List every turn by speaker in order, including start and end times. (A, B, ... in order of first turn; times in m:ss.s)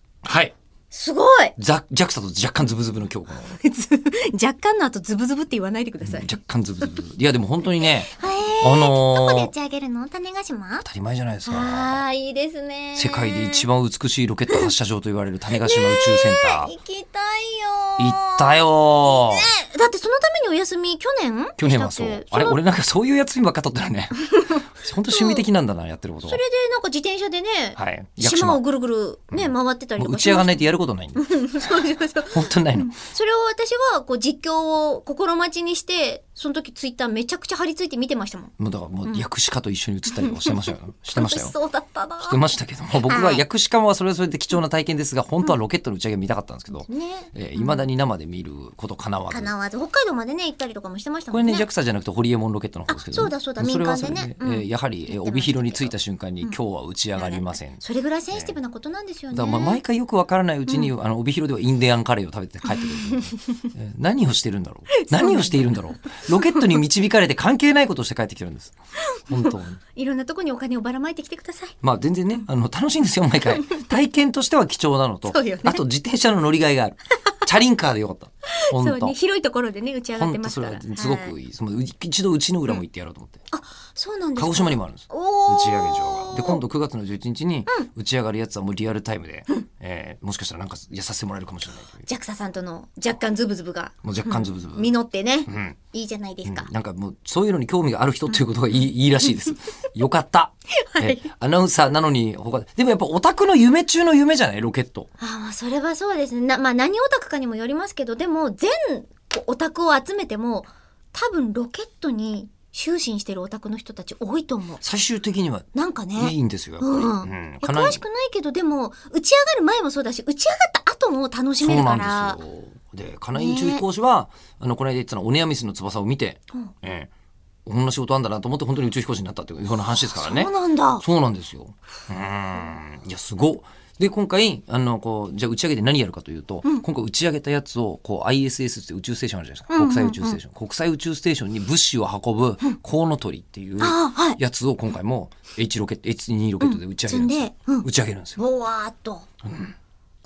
0:00.2-0:00.5 A
0:00.9-0:01.5 B
0:01.6-0:03.6 A
0:03.5-0:06.4 B
0:06.0-0:09.5 A
0:07.8-0:10.8 B
0:10.8-0:12.0 A
0:11.4-0:13.6 B
0:13.0-0:16.7 A
0:15.6-0:22.6 B
0:18.0-0:19.5 A
0:21.6-0:26.4 A
0:25.1-0:25.4 B
0:26.3-0:38.5 B
0:27.8-0:28.6 A
0:29.3-0:33.0 A
0:38.6-0:41.5 A
0:40.0-0:42.4 B
0:42.2-0:49.5 A
0:43.0-0:43.4 B
0:46.9-0:47.8 B
0:49.3-0:51.7 B
0:51.3-0:58.6 A
0:52.9-0:56.6 B
0:57.2-0:59.8 B
0:59.3-1:08.7 A
1:00.7-1:00.9 B
1:02.7-1:03.5 B
1:05.0-1:05.8 B
1:06.4-1:06.8 B
1:09.1-1:11.8 B
1:09.3-1:09.8 A
1:11.8-1:19.1 A
1:15.3-1:15.8 B
1:18.6-1:21.3 B
1:20.1-1:23.4 A
1:23.5-1:26.6 B
1:24.4-1:32.1 A
1:32.0-1:36.7 B
1:34.0-1:34.9 A
1:35.5-1:35.8 A
1:36.4-1:45.1 A
1:40.8-1:41.2 B
1:45.2-1:54.8 B
1:54.8-1:58.0 A
1:55.7-2:02.4 B
2:01.6-2:07.1 A
2:03.3-2:03.8 B
2:07.6-2:28.4 A
2:09.9-2:11.0 B
2:19.7-2:20.4 B
2:23.8-2:24.4 B
2:26.6-2:27.8 B
2:28.4-2:29.3 B
2:29.4-2:29.7 A